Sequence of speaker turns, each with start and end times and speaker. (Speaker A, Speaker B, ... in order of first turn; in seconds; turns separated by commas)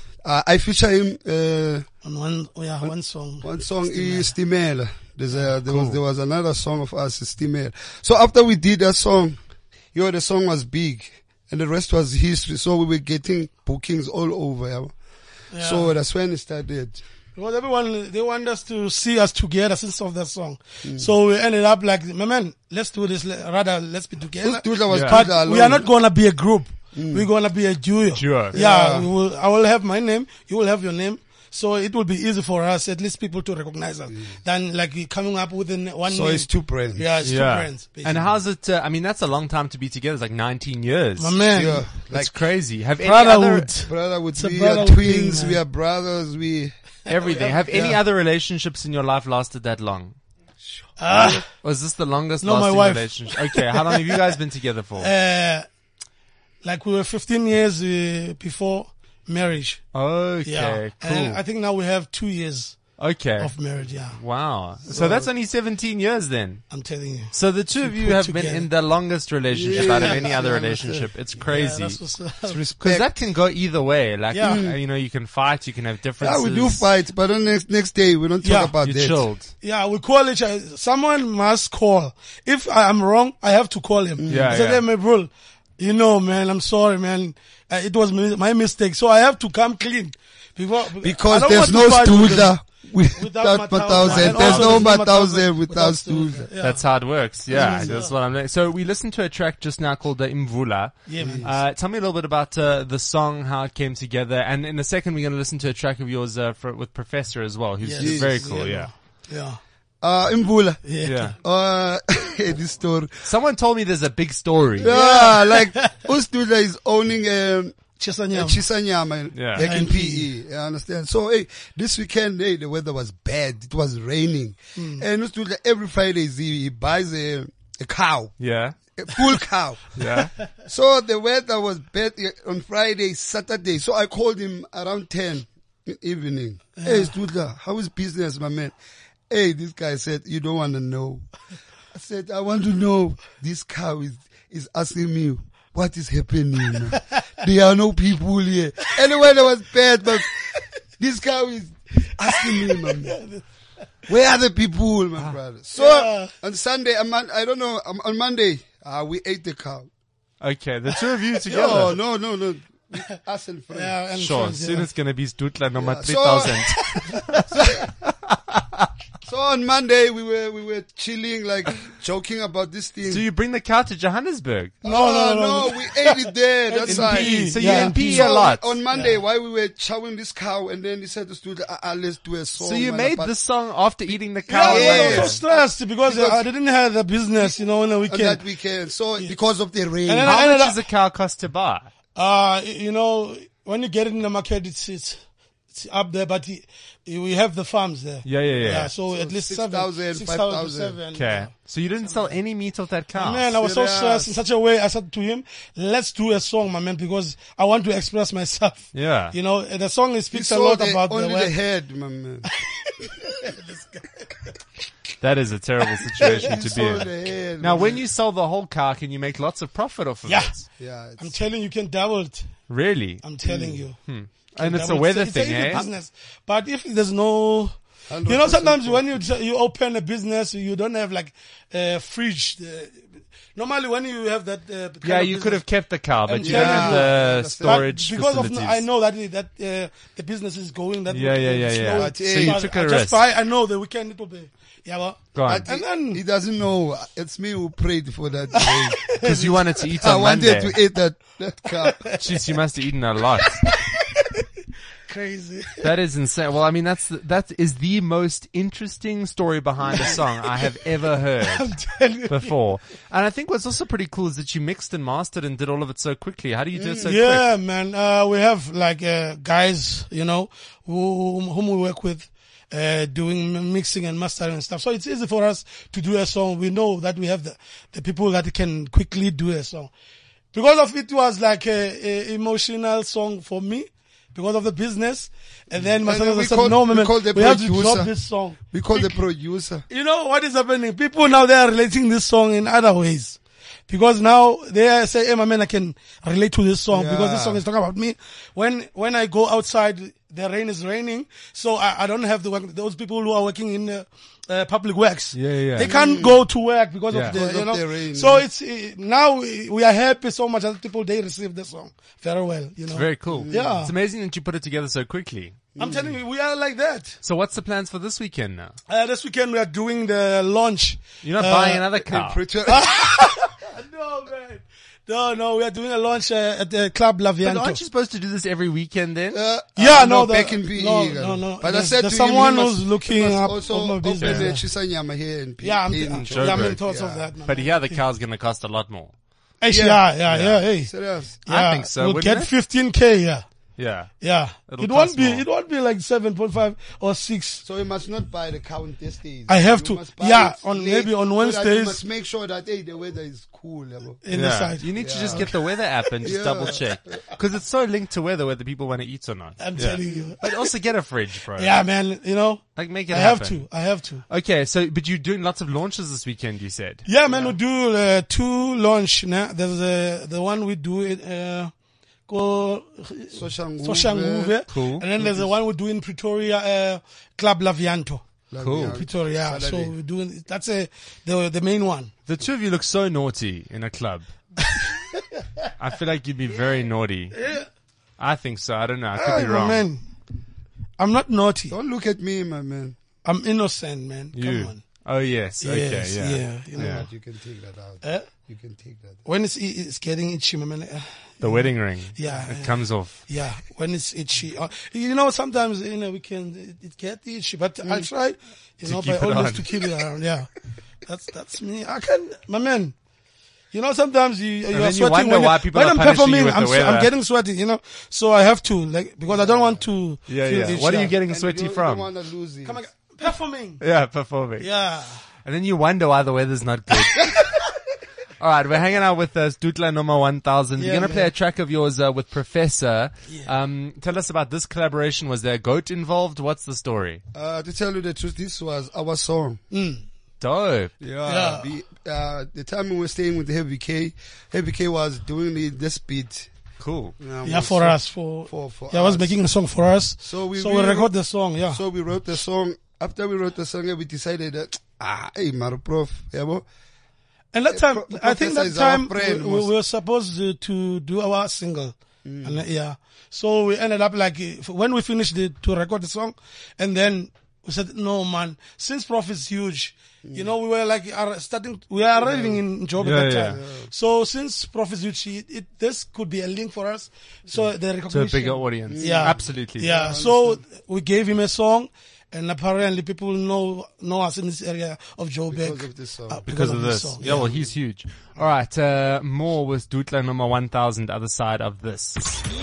Speaker A: 0.2-1.9, Speaker B: 2.0-4.3, Speaker A: 2.8-9.4, Speaker B: 5.3-5.6, Speaker C: 5.7-6.0, Speaker A: 9.9-14.9, Speaker B: 15.5-15.9, Speaker A: 15.5-17.0, Speaker B: 17.4-38.3, Speaker A: 20.8-21.1, Speaker A: 24.4-25.9, Speaker C: 24.9-25.2, Speaker A: 26.9-27.3, Speaker C: 28.1-28.6, Speaker A: 28.5-29.1, Speaker A: 34.1-34.4, Speaker A: 36.1-37.1, Speaker C: 37.2-41.4, Speaker B: 41.2-41.9, Speaker A: 41.5-42.3, Speaker C: 42.0-43.7, Speaker B: 43.0-45.6, Speaker A: 43.9-46.7, Speaker C: 47.1-50.2, Speaker A: 47.3-48.0, Speaker B: 47.3-48.0, Speaker A: 50.9-51.4, Speaker B: 51.0-51.5, Speaker C: 51.1-55.1, Speaker B: 52.4-54.2, Speaker B: 55.0-55.7, Speaker B: 56.6-59.8, Speaker C: 59.9-61.4, Speaker B: 60.4-64.2, Speaker C: 63.0-63.5, Speaker C: 64.1-66.6, Speaker A: 64.9-65.3, Speaker B: 66.7-68.7, Speaker C: 67.3-72.0, Speaker A: 69.5-70.8, Speaker B: 69.7-72.6, Speaker A: 72.4-73.1, Speaker C: 72.8-76.9, Speaker B: 74.3-74.6, Speaker A: 74.4-74.8, Speaker A: 76.2-79.3, Speaker B: 78.4-78.8, Speaker C: 78.8-79.5, Speaker B: 79.6-92.6, Speaker A: 84.2-84.6, Speaker C: 84.3-84.8, Speaker A: 91.0-96.5, Speaker B: 93.1-98.2, Speaker C: 94.0-95.0, Speaker C: 96.6-108.9, Speaker A: 97.5-98.0, Speaker B: 101.1-101.6, Speaker A: 101.2-101.5, Speaker B: 107.8-109.6, Speaker A: 108.0-108.4, Speaker A: 110.0-113.3, Speaker B: 110.8-111.3, Speaker C: 111.0-111.4, Speaker C: 113.2-114.9, Speaker A: 114.8-117.8, Speaker B: 114.8-116.0, Speaker B: 118.0-118.6, Speaker A: 118.3-128.3, Speaker C: 119.3-119.6, Speaker B: 119.6-120.3, Speaker B: 124.8-125.0, Speaker C: 128.4-128.8, Speaker A: 129.0-129.9, Speaker C: 130.0-130.3, Speaker A: 130.5-138.8, Speaker B: 136.8-137.1, Speaker A: 139.3-141.3, Speaker A: 141.9-153.2, Speaker B: 146.9-147.2, Speaker B: 152.2-153.4, Speaker A: 154.1-159.9, Speaker B: 155.8-156.3, Speaker C: 160.4-162.0, Speaker A: 161.5-164.0, Speaker B: 163.7-164.9, Speaker C: 164.1-167.8, Speaker A: 165.8-167.0, Speaker A: 169.2-173.2, Speaker C: 173.1-174.8, Speaker A: 174.8-183.3, Speaker B: 174.8-178.4, Speaker C: 176.8-178.8, Speaker B: 178.9-179.2, Speaker C: 182.6-185.4, Speaker B: 184.5-188.4, Speaker A: 184.6-186.5, Speaker A: 188.1-190.3, Speaker B: 190.0-190.8, Speaker C: 190.2-191.9, Speaker B: 192.2-195.2, Speaker B: 195.7-201.5, Speaker C: 198.2-198.9, Speaker A: 198.6-201.0, Speaker C: 201.1-203.5, Speaker B: 202.0-202.4, Speaker B: 203.2-211.6, Speaker A: 203.6-204.4, Speaker C: 208.9-209.4, Speaker A: 210.3-212.5, Speaker B: 212.5-214.6, Speaker C: 215.2-220.6, Speaker A: 216.2-218.0, Speaker B: 216.2-216.5, Speaker B: 220.2-220.6, Speaker A: 220.8-221.4, Speaker B: 221.2-222.5, Speaker C: 222.7-223.2, Speaker B: 223.2-224.0, Speaker A: 223.4-223.8, Speaker C: 224.0-225.9, Speaker B: 224.6-246.2, Speaker A: 228.1-229.3, Speaker C: 235.0-238.8, Speaker A: 236.4-237.9, Speaker C: 241.1-243.2, Speaker A: 241.9-242.7, Speaker C: 245.3-245.7, Speaker A: 245.5-249.1, Speaker B: 248.5-249.9, Speaker C: 249.2-250.8, Speaker A: 250.0-252.0, Speaker B: 251.8-252.4, Speaker C: 252.2-253.6, Speaker B: 253.6-254.5, Speaker B: 255.1-255.9, Speaker C: 255.8-261.7, Speaker B: 259.9-260.8, Speaker B: 261.4-262.5, Speaker C: 262.3-267.4, Speaker A: 266.8-267.1, Speaker B: 267.0-279.9, Speaker B: 280.5-289.2, Speaker A: 285.8-289.9, Speaker B: 289.9-313.9, Speaker A: 296.9-297.6, Speaker C: 305.3-305.9, Speaker A: 305.8-306.4, Speaker C: 307.1-307.4, Speaker A: 307.2-308.5, Speaker C: 312.9-315.6, Speaker A: 313.3-313.9, Speaker A: 315.8-316.2, Speaker B: 315.8-317.2, Speaker C: 317.2-318.8, Speaker B: 318.9-321.9, Speaker C: 321.2-322.4, Speaker A: 322.1-323.4, Speaker B: 322.7-327.8, Speaker C: 327.4-329.4, Speaker A: 329.3-337.3, Speaker B: 329.8-334.7, Speaker C: 334.2-334.5, Speaker B: 335.6-338.1, Speaker C: 336.3-336.8, Speaker C: 337.4-339.1, Speaker B: 339.6-340.9, Speaker A: 339.7-340.1, Speaker C: 340.3-340.6, Speaker A: 340.8-341.4, Speaker B: 341.5-343.4, Speaker C: 341.5-342.5, Speaker C: 343.8-344.1, Speaker B: 344.2-347.6, Speaker C: 344.7-345.5, Speaker A: 347.6-354.2, Speaker B: 349.5-352.0, Speaker B: 354.2-356.1, Speaker C: 354.3-361.8, Speaker A: 354.9-355.5, Speaker A: 356.2-357.2, Speaker B: 359.6-360.7, Speaker A: 360.0-360.3, Speaker B: 361.6-364.2, Speaker C: 362.8-363.7, Speaker C: 364.3-367.1, Speaker B: 367.1-371.7, Speaker A: 367.3-367.6, Speaker B: 372.3-378.2, Speaker A: 373.3-374.6, Speaker C: 374.7-375.1, Speaker A: 375.2-375.5, Speaker A: 378.5-380.0, Speaker C: 378.6-379.0, Speaker B: 378.9-382.1, Speaker C: 382.3-384.8, Speaker B: 384.8-385.4, Speaker C: 385.8-387.5, Speaker B: 387.3-387.7, Speaker C: 388.2-389.9, Speaker B: 389.1-390.1, Speaker B: 391.0-391.8, Speaker A: 391.7-393.0, Speaker B: 393.2-394.8, Speaker C: 394.3-397.1, Speaker B: 395.6-397.1, Speaker A: 396.8-399.2, Speaker B: 398.0-398.3, Speaker B: 399.2-410.5, Speaker C: 401.4-403.2, Speaker A: 407.8-408.1, Speaker C: 408.8-409.9, Speaker B: 411.0-412.9, Speaker B: 413.7-421.2, Speaker C: 414.7-417.1, Speaker A: 419.3-419.9, Speaker C: 420.3-422.1, Speaker A: 421.2-422.8, Speaker B: 422.6-423.8, Speaker C: 423.8-424.7, Speaker B: 424.6-425.2, Speaker C: 425.4-427.6, Speaker C: 428.4-437.2, Speaker B: 430.8-431.3, Speaker A: 437.3-439.6, Speaker B: 439.7-440.1, Speaker C: 440.4-440.9, Speaker A: 441.0-446.5, Speaker B: 441.3-441.7, Speaker C: 446.8-447.1, Speaker A: 447.2-449.4, Speaker B: 447.4-451.8, Speaker A: 450.2-451.1, Speaker A: 451.7-456.6, Speaker B: 457.5-487.6, Speaker A: 457.7-459.7, Speaker A: 462.2-462.6, Speaker A: 470.2-470.5, Speaker A: 472.2-472.6, Speaker C: 473.0-473.6, Speaker A: 473.5-473.9, Speaker C: 478.1-479.9, Speaker A: 478.9-480.6, Speaker A: 485.5-486.4, Speaker C: 486.5-492.4, Speaker A: 487.2-487.7